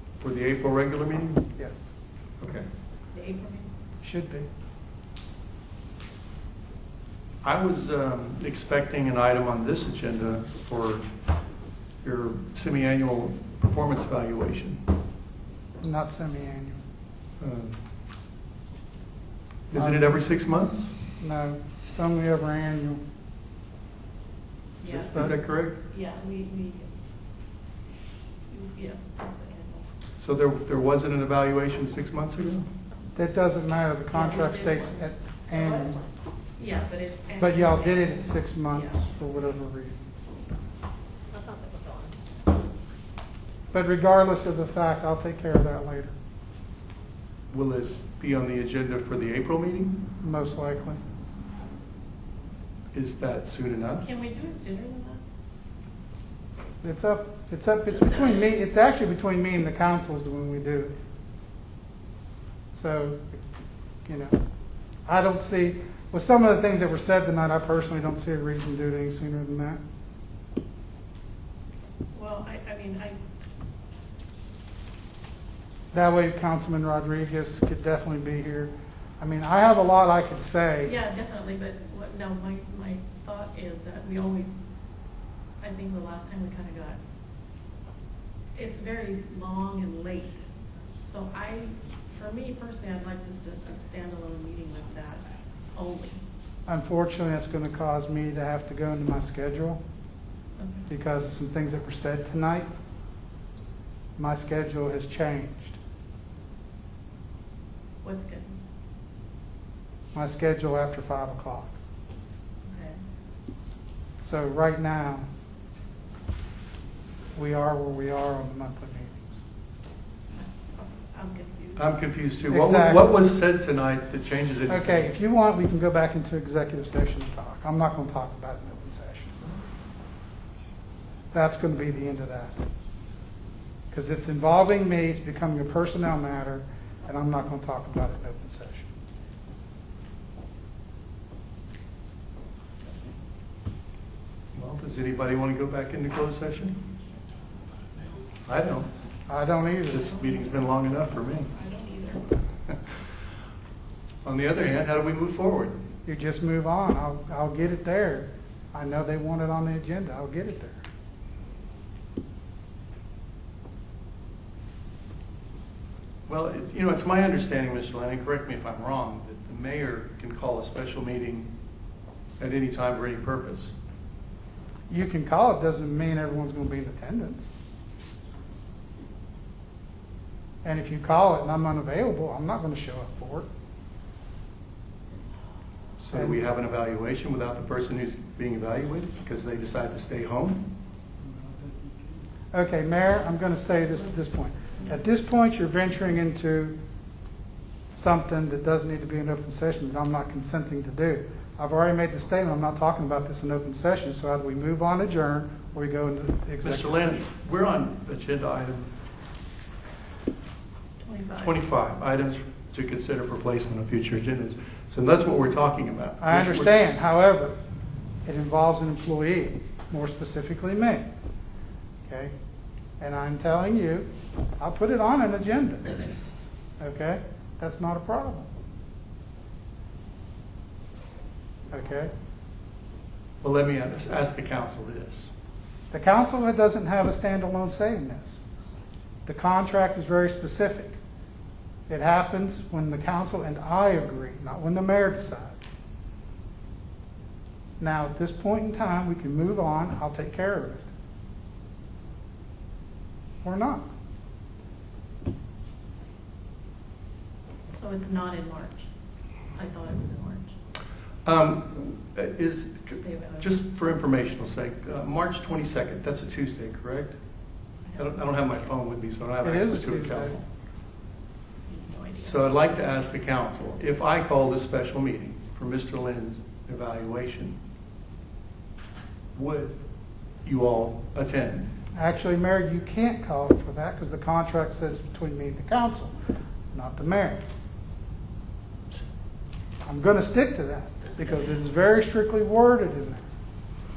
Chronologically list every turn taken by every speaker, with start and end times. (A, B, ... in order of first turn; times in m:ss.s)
0:00.2-0:01.5 A
0:01.6-0:01.9 B
0:02.4-0:02.7 A
0:03.1-0:03.7 C
0:04.0-0:04.5 B
0:07.4-0:11.0 A
0:12.0-0:14.8 A
0:15.8-0:16.8 B
0:17.4-0:17.8 A
0:19.7-0:20.2 B
0:19.7-0:20.9 A
0:21.2-0:23.0 B
0:24.8-0:26.9 C
0:24.8-0:25.8 A
0:28.5-0:29.9 C
0:30.2-0:32.7 A
0:33.2-0:36.0 B
0:34.1-0:36.0 C
0:36.6-0:39.0 C
0:37.4-0:40.0 B
0:41.3-0:42.1 C
0:43.7-0:46.1 B
0:47.5-0:50.0 A
0:50.2-0:51.0 B
0:52.9-0:54.0 A
0:54.0-0:55.2 C
0:56.8-1:00.9 B
1:02.7-1:03.4 B
1:04.1-1:04.4 B
1:05.1-1:09.8 B
1:12.1-1:13.2 C
1:15.9-1:20.9 B
1:20.8-1:24.6 C
1:25.6-1:27.0 C
1:28.6-1:30.5 C
1:31.0-1:36.2 C
1:36.7-1:39.8 B
1:40.6-1:40.9 C
1:40.9-1:42.7 B
1:44.2-1:45.8 B
1:48.0-1:48.6 C
1:50.1-1:51.8 B
1:52.6-1:53.0 C
1:54.2-1:55.3 B
1:57.4-1:59.4 B
2:00.8-2:01.8 C
2:01.8-2:05.1 A
2:02.5-2:03.1 B
2:04.7-2:09.4 B
2:11.3-2:12.7 B
2:13.9-2:18.9 B
2:24.5-2:26.8 A
2:28.4-2:28.9 A
2:29.3-2:30.1 B
2:29.9-2:31.5 A
2:31.5-2:32.4 C
2:34.2-2:35.8 A
2:36.1-2:40.8 B
2:46.3-2:51.5 A
2:52.4-2:53.7 A
2:54.9-2:57.5 B
3:00.6-3:03.5 B
3:06.0-3:10.7 A
3:06.1-3:06.4 B
3:12.5-3:16.8 B
3:18.0-3:27.2 B
3:26.6-3:28.9 A
3:31.0-3:31.5 C
3:31.4-3:36.7 A
3:36.2-3:37.6 B
3:38.2-3:41.0 B
3:42.1-3:42.3 B
3:43.0-3:46.1 B
3:46.8-3:48.5 B
3:51.7-3:52.1 B
3:53.4-3:55.3 A
3:55.9-3:58.5 B
3:59.3-4:01.0 B
4:01.9-4:05.8 B
4:07.8-4:10.9 B
4:13.4-4:13.9 B
4:17.8-4:18.9 C
4:19.5-4:20.5 C
4:21.2-4:27.1 A
4:23.0-4:23.5 C
4:28.0-4:30.4 A
4:29.4-4:30.4 B
4:31.7-4:32.6 C
4:32.2-4:37.6 A
4:39.4-4:39.8 A
4:40.4-4:41.7 A
4:42.0-4:46.1 B
4:46.7-4:47.4 B
4:49.8-4:53.3 B